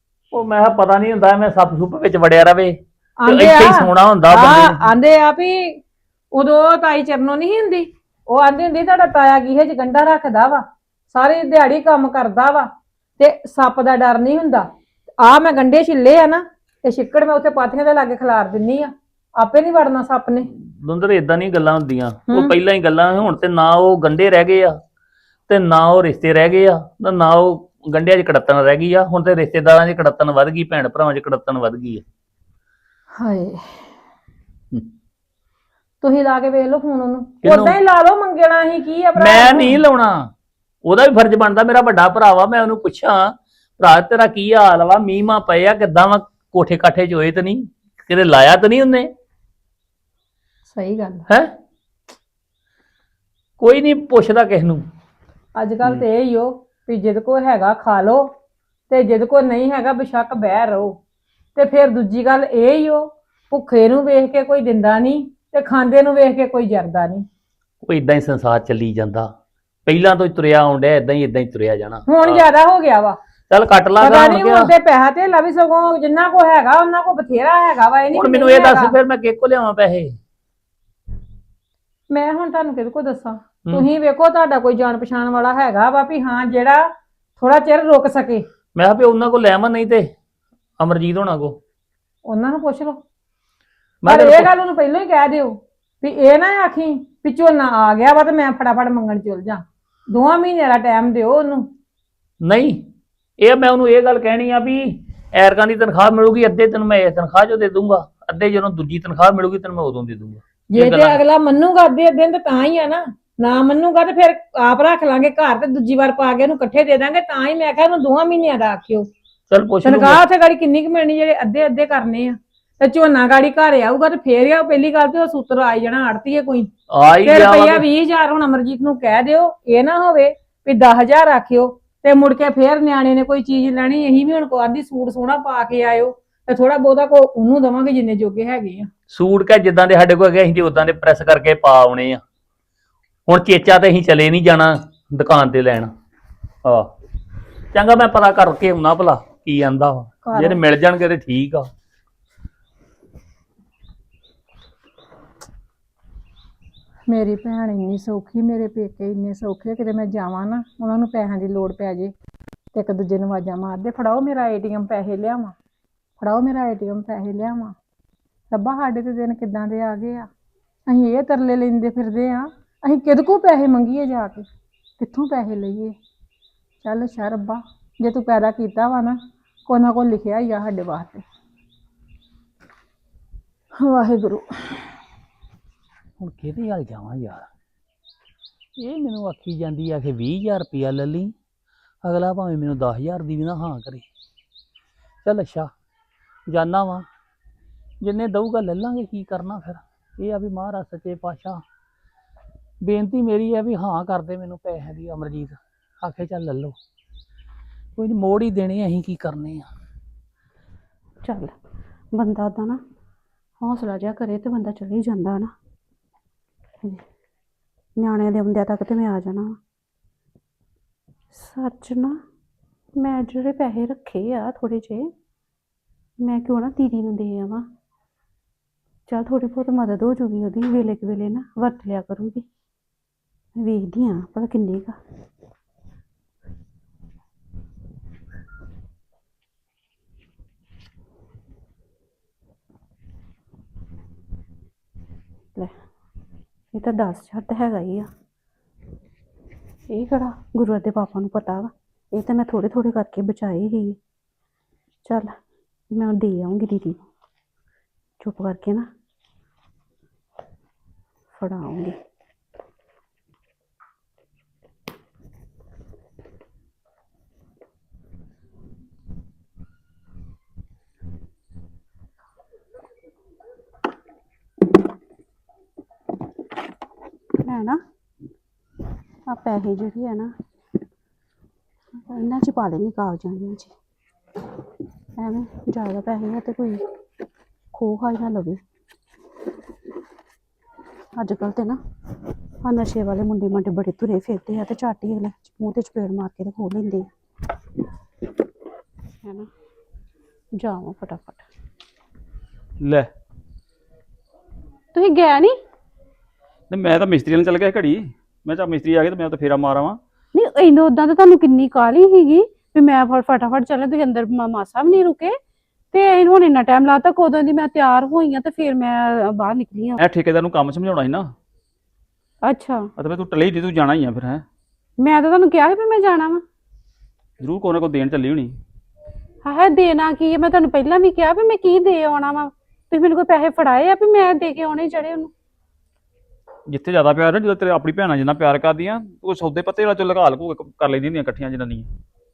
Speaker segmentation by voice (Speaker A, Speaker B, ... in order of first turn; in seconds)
Speaker A: 0.3-4.9, 20.5-24.8, 25.5-32.0, 37.4-37.8, 39.1-40.3, 40.8-49.1, 53.6-54.9, 67.8-69.3, 69.9-72.5, 73.5-74.7, 78.1-80.1, 88.7-90.1, 90.8-91.6, 94.0-94.5, 102.4-102.8, 103.4-111.2, 119.5-120.2, 126.9-127.8, 139.1-142.2, 143.3-145.9, 146.6-146.9, 147.7-151.7, 186.2-187.5, 188.8-191.3, 192.0-194.1, 195.2-195.7, 196.5-197.1, 198.0-201.6, 202.8-206.8, 207.9-209.7
Speaker B: 3.2-5.8, 6.3-14.7, 15.2-20.5, 22.3-22.5, 33.1-33.9, 36.0-39.8, 50.7-51.2, 55.5-58.2, 58.9-61.0, 61.5-67.2, 72.1-73.2, 74.0-78.9, 82.1-86.8, 87.4-88.5, 92.2-93.0, 94.0-101.7, 110.7-119.1, 119.8-126.7, 127.2-138.9, 150.2-150.6, 157.1-162.1, 162.7-165.5, 166.2-167.7, 168.5-170.3, 170.9-174.4, 175.0-175.9, 176.8-181.2, 183.8-184.8
Speaker C: 211.2-211.5, 212.1-212.8, 213.6-215.5, 218.0-219.6, 221.3-222.2, 223.0-225.1, 226.2-227.6, 229.1-232.4, 233.6-234.9, 246.7-248.1, 249.9-254.0, 255.0-255.4, 255.9-257.1, 258.2-258.9, 261.3-261.9, 277.4-277.8, 279.3-280.3, 281.9-283.7, 285.2-286.8, 287.7-288.6, 291.1-291.8, 292.6-297.1, 299.2-299.5, 300.6-301.4, 304.9-305.6, 310.3-315.4, 315.9-320.0, 322.4-322.9, 325.0-326.4, 329.4-335.3
Speaker D: 302.8-303.1, 306.7-310.0, 320.0-321.3, 323.0-324.4, 327.4-328.6, 336.7-341.9